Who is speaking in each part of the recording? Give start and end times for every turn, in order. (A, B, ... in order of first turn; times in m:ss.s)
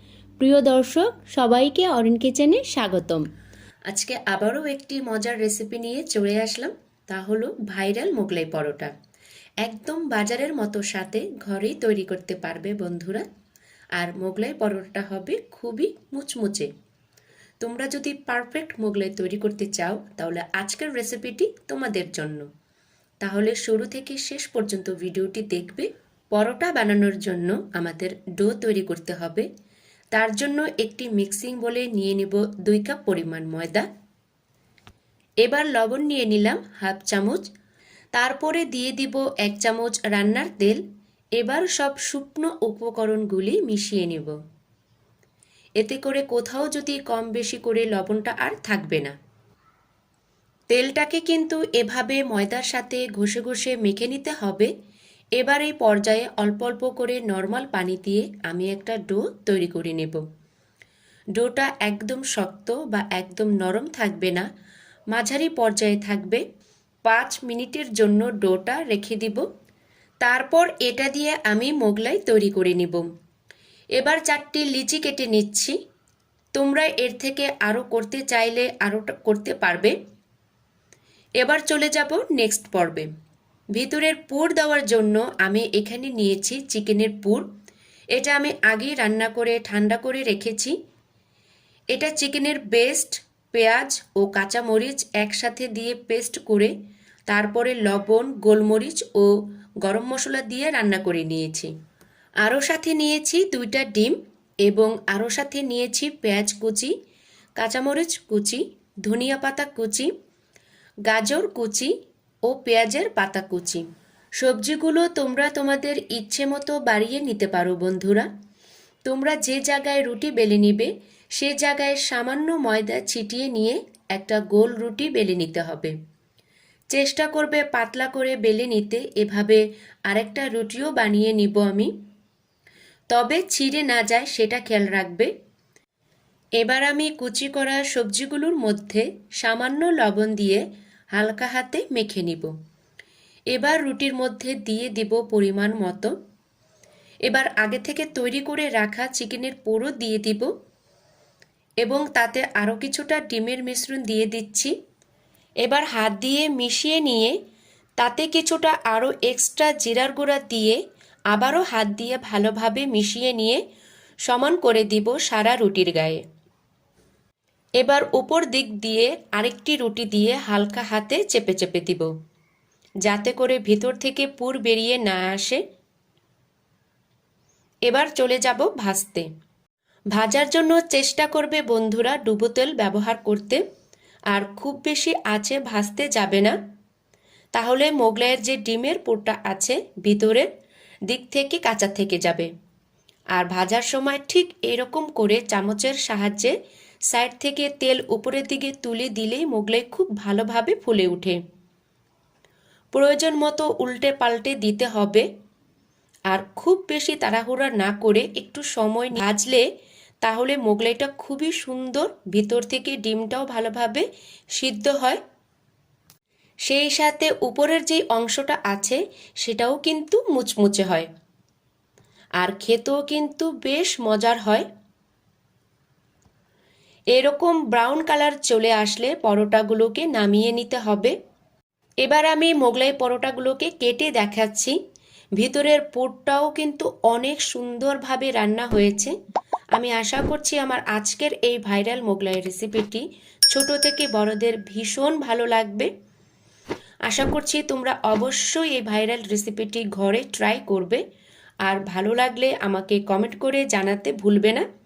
0:00.4-0:03.2 A
0:03.9-0:08.9 A
0:09.6-0:13.2 A
0:14.0-0:16.7 A
0:17.6-0:22.4 A
0:23.2-0:29.5 A
0:30.1-0:33.8 A
0:35.4-0:37.5 A
0:38.1-0:40.8 A
0:41.4-0:44.3 A
0:45.8-0:49.1 A
0:50.7-0:54.7 A
0:55.4-1:00.2 A
1:01.4-1:04.5 A
1:05.1-1:06.4 A
1:07.0-1:09.4 A
1:10.2-1:13.1 A
1:14.0-1:15.8 A
1:16.6-1:20.0 A
1:21.4-1:23.1 A
1:23.7-1:27.4 A
1:28.1-1:30.7 A
1:31.9-1:36.7 A
1:37.3-1:41.7 A
1:42.4-1:46.9 A
1:47.6-1:50.1 A
1:51.1-1:51.9 A
1:52.5-1:53.8 A
1:54.4-1:58.3 A
1:59.0-2:05.9 A
2:06.9-2:11.9 A
2:13.1-2:15.3 A
2:16.6-2:20.6 A
2:21.1-2:22.5 A
2:23.5-2:26.1 A
2:27.3-2:30.5 A
2:31.8-2:34.7 A
2:35.6-2:37.3 A
2:38.0-2:40.8 A
2:41.3-2:43.6 A
2:44.3-2:46.2 A
2:47.8-2:52.1 A
2:53.0-2:55.6 A
2:57.9-2:59.2 A
3:00.1-3:03.6 A
3:04.3-3:06.6 A
3:07.5-3:10.5 A
3:11.1-3:12.5 A
3:13.4-3:16.5 A
3:17.1-3:21.4 A
3:22.9-3:25.2 A
3:26.3-3:29.6 A
3:30.2-3:34.0 A
3:34.6-3:35.2 A
3:36.7-3:41.1 A
3:42.4-3:44.6 A
3:47.1-3:51.1 A
3:52.0-3:54.8 A
3:55.4-3:59.1 A
3:59.7-4:05.9 A
4:07.1-4:11.0 A
4:11.6-4:14.6 A